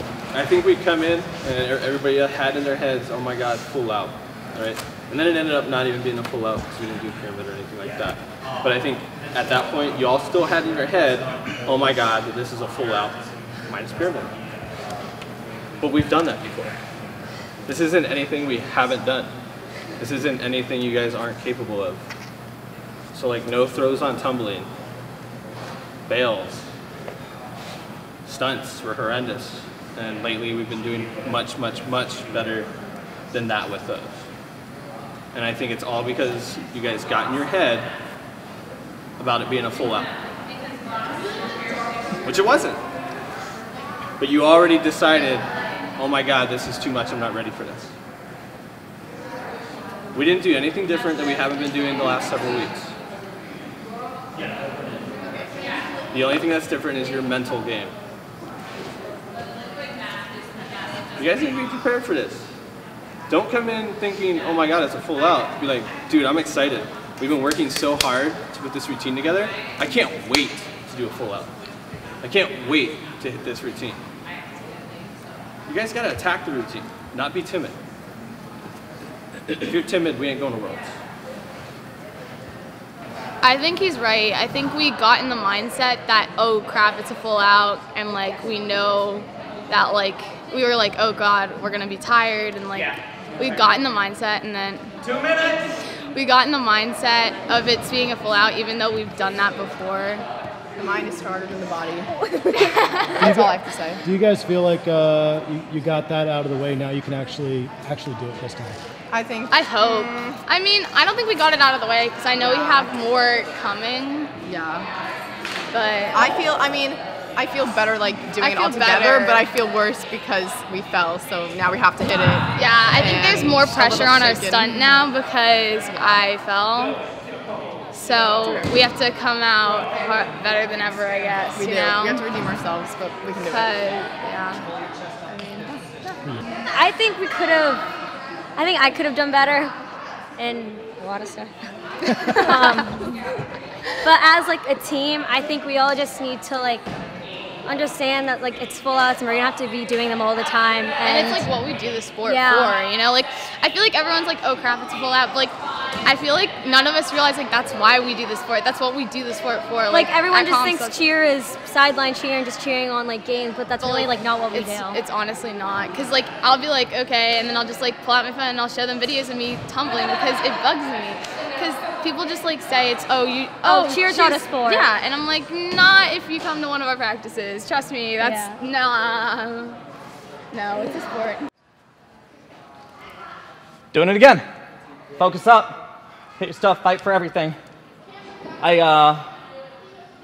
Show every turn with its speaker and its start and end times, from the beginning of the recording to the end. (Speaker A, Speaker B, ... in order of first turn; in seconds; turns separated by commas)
Speaker A: 0.3-1.4, Speaker A: 2.6-13.1, Speaker A: 13.7-14.3, Speaker A: 15.8-16.8, Speaker A: 17.7-19.3, Speaker A: 20.0-22.1, Speaker A: 23.1-24.7, Speaker A: 26.1-26.6, Speaker A: 28.3-32.7, Speaker A: 33.3-34.2, Speaker A: 35.3-35.6, Speaker A: 36.3-37.6, Speaker A: 39.2-40.1, Speaker A: 42.2-42.8, Speaker A: 44.2-45.5, Speaker A: 46.0-47.9, Speaker A: 50.1-52.9, Speaker A: 56.1-57.9, Speaker A: 61.2-62.4, Speaker A: 63.3-68.6, Speaker A: 69.2-71.5, Speaker A: 72.2-74.0, Speaker A: 75.7-77.8, Speaker A: 79.5-80.9, Speaker B: 83.4-94.9, Speaker B: 96.2-100.2, Speaker C: 100.8-104.0, Speaker B: 102.5-103.2, Speaker D: 103.2-108.8, Speaker C: 109.1-110.4, Speaker B: 109.5-114.3, Speaker C: 114.4-114.9, Speaker B: 115.7-116.3, Speaker C: 116.1-125.0, Speaker B: 118.4-119.5, Speaker B: 122.5-127.0, Speaker B: 127.9-132.2, Speaker C: 131.6-133.8, Speaker B: 133.5-134.6, Speaker E: 136.7-137.8, Speaker E: 138.6-139.7, Speaker E: 140.4-141.5, Speaker E: 142.1-143.2, Speaker E: 144.0-146.9, Speaker E: 147.7-151.5, Speaker B: 151.0-161.0, Speaker E: 152.2-152.8, Speaker E: 159.9-165.0, Speaker B: 163.8-179.8, Speaker E: 173.7-174.9, Speaker E: 178.2-178.6, Speaker B: 180.5-181.4, Speaker F: 183.9-184.4, Speaker F: 185.2-187.6, Speaker F: 188.6-189.3